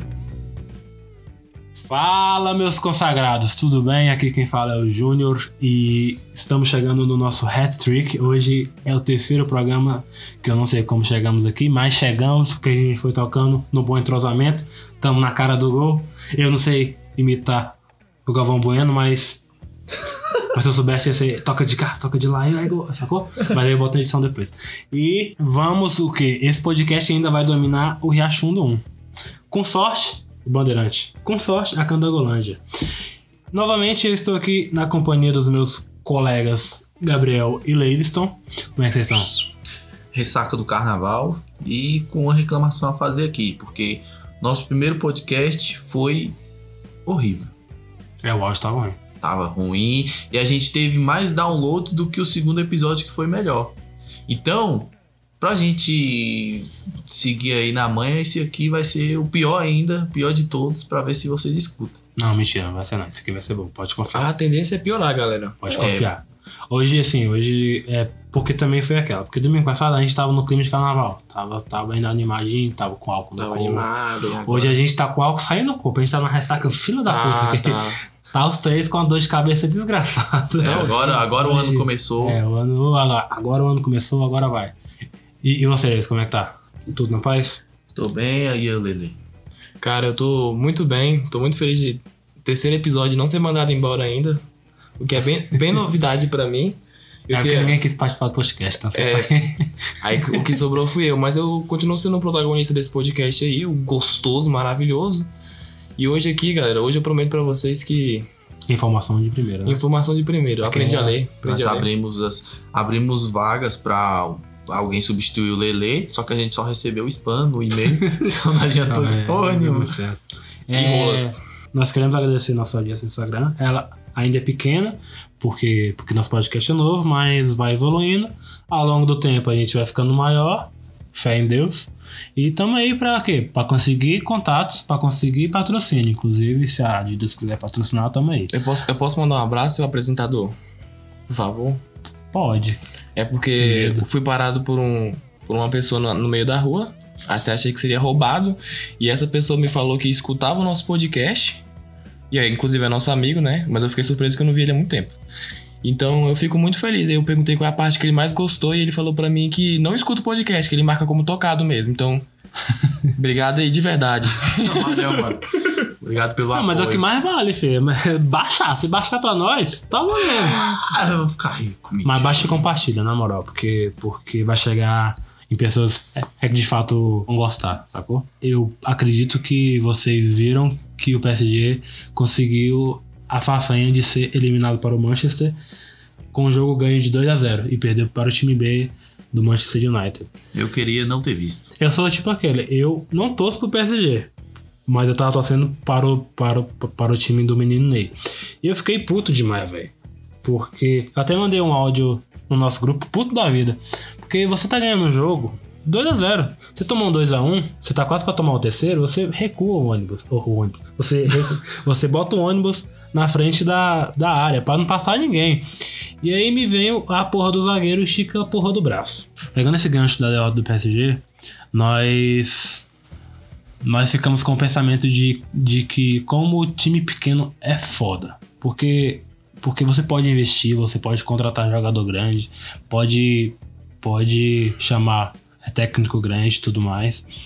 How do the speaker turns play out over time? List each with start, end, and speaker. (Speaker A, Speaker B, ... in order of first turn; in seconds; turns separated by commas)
Speaker A: 1.9-19.4, Speaker A: 20.5-28.8, Speaker A: 29.5-32.6, Speaker A: 33.5-39.3, Speaker B: 40.1-46.4, Speaker B: 47.0-47.5, Speaker A: 48.2-49.0, Speaker B: 49.2-53.8, Speaker B: 54.3-62.0, Speaker A: 62.1-64.3, Speaker C: 64.1-65.6, Speaker A: 65.6-73.9, Speaker B: 65.7-66.1, Speaker C: 73.4-74.6, Speaker B: 74.4-74.7, Speaker A: 74.4-84.7, Speaker C: 77.0-78.0, Speaker B: 80.6-82.4, Speaker C: 80.6-81.2, Speaker A: 85.4-87.6, Speaker B: 87.9-89.2, Speaker C: 89.8-94.4, Speaker C: 95.0-96.8, Speaker C: 97.3-97.8, Speaker A: 97.3-99.7, Speaker C: 98.9-99.4, Speaker C: 100.0-105.3, Speaker C: 106.0-108.3, Speaker A: 108.7-109.8, Speaker C: 109.6-111.9, Speaker A: 110.6-111.2, Speaker B: 111.4-120.0, Speaker A: 118.8-138.5, Speaker C: 120.7-121.4, Speaker C: 138.5-140.6, Speaker C: 141.3-141.8, Speaker A: 142.3-142.8, Speaker C: 143.2-151.6, Speaker A: 143.6-144.1, Speaker C: 152.3-155.2, Speaker C: 155.8-162.2, Speaker C: 163.1-165.3, Speaker B: 164.6-167.1, Speaker A: 166.5-170.7, Speaker B: 170.4-172.6, Speaker A: 172.0-185.6, Speaker A: 186.3-190.3, Speaker B: 190.5-191.7, Speaker A: 191.8-194.3, Speaker A: 194.9-199.9, Speaker A: 200.4-215.7, Speaker A: 216.2-222.8, Speaker A: 223.8-237.2